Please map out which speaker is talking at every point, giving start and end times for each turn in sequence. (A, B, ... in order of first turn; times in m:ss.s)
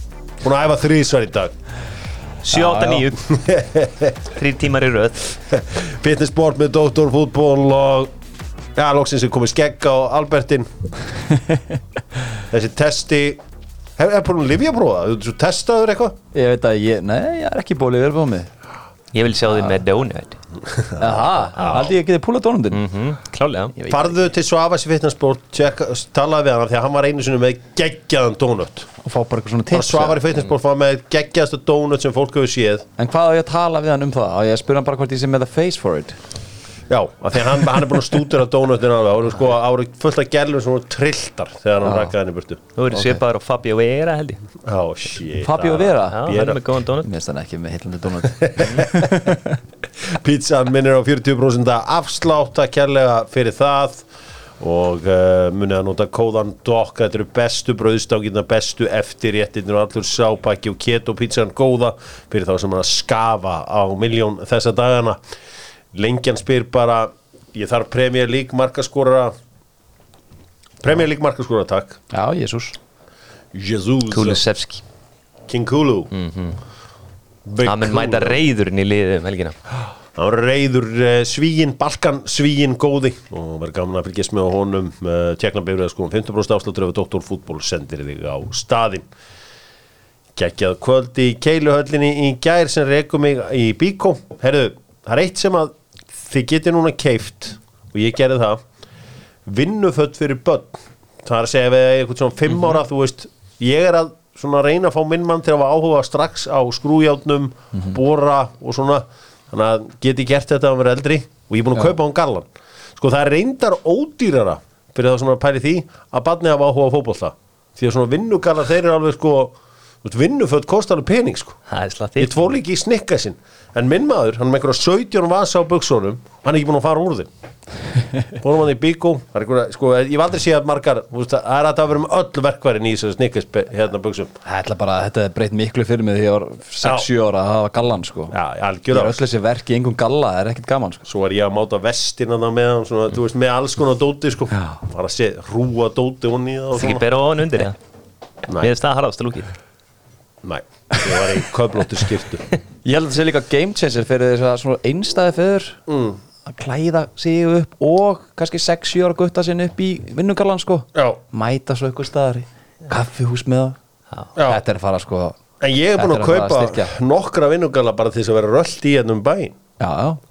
0:00.4-0:01.5 A
0:02.4-0:03.2 B
0:02.6-0:04.2 A
0:04.4-0:05.3 B
0:05.5-0:08.1 A
0:08.8-0:10.7 A
0:12.5-0:13.4 A
0:14.0-0:16.2 A
0:16.3-0:18.5 C
0:19.1-0:20.4 B
0:20.7-0:22.0 A
0:21.0-0:22.9 C
0:22.7-0:23.7 B
0:23.8-0:24.2 C
0:23.9-0:28.9 A
0:29.0-0:30.2 C
0:29.7-0:32.9 A
0:33.0-0:36.2 C
0:36.9-0:42.6 A
0:41.8-0:42.1 C
0:42.8-0:44.4 B
0:42.9-0:43.2 C
0:44.6-0:46.6 A
0:45.4-0:46.2 C
0:46.0-0:47.1 B
0:47.0-0:49.6 C
0:48.3-0:49.3 A
0:48.6-0:48.8 B
0:50.0-0:54.0 A
0:54.6-1:05.2 A
1:05.9-1:09.3 A
1:10.8-1:12.0 A
1:12.1-1:12.8 C
1:13.5-1:14.4 A
1:14.1-1:14.8 B
1:15.5-1:16.1 A
1:16.1-1:16.6 B
1:17.4-1:18.4 A
1:17.6-1:19.6 B
1:20.2-1:29.1 A
1:30.4-1:38.6 A
1:39.5-2:01.6 A
2:01.7-2:02.3 B
2:02.2-2:07.3 A
2:08.4-2:14.4 A
2:14.4-2:18.4 C
2:16.8-2:17.1 A
2:18.3-2:19.2 A
2:18.9-2:21.1 C
2:21.1-2:27.0 A
2:26.8-2:27.8 B
2:28.6-2:29.5 B
2:30.4-2:32.5 A
2:32.8-2:35.8 C
2:35.9-2:36.2 A
2:36.4-2:43.8 C
2:44.4-2:45.4 C
2:45.6-2:49.6 A
2:46.0-2:46.9 C
2:49.8-2:50.2 C